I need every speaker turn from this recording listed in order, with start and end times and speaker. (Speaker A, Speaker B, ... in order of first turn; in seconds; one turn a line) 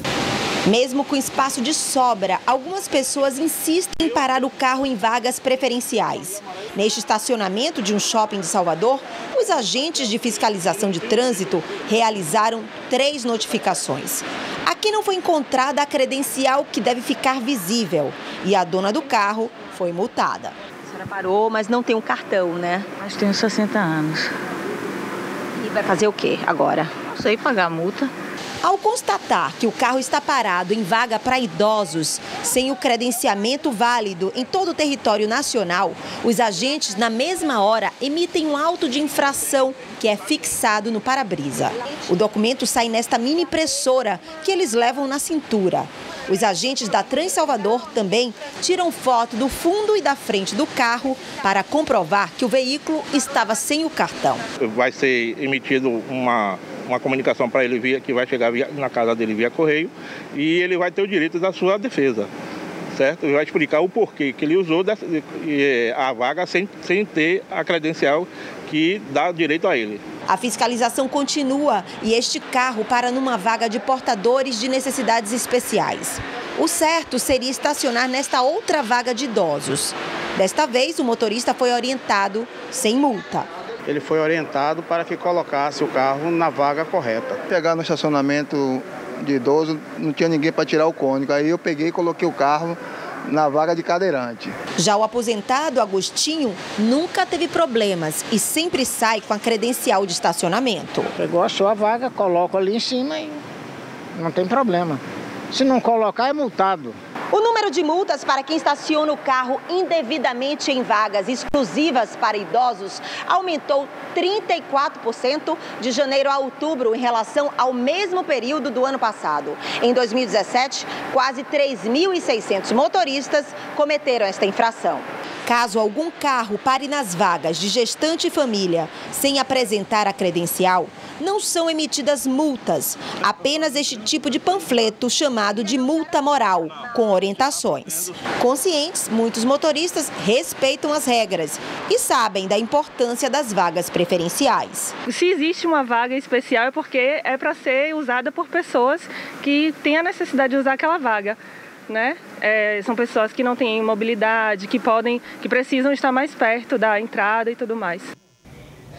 Speaker A: 0.7-22.9
Speaker B: 23.0-24.3
Speaker A: 25.6-27.0
Speaker B: 27.1-28.1
Speaker A: 28.6-54.4
Speaker C: 54.6-62.3
Speaker C: 62.9-70.0
Speaker A: 70.3-83.5
Speaker D: 83.8-87.4
Speaker E: 87.5-94.5
Speaker A: 94.8-101.1
Speaker F: 101.2-103.4
Speaker F: 104.2-107.0
Speaker A: 107.3-144.9
Speaker G: 145.1-151.4
Speaker G: 151.9-158.1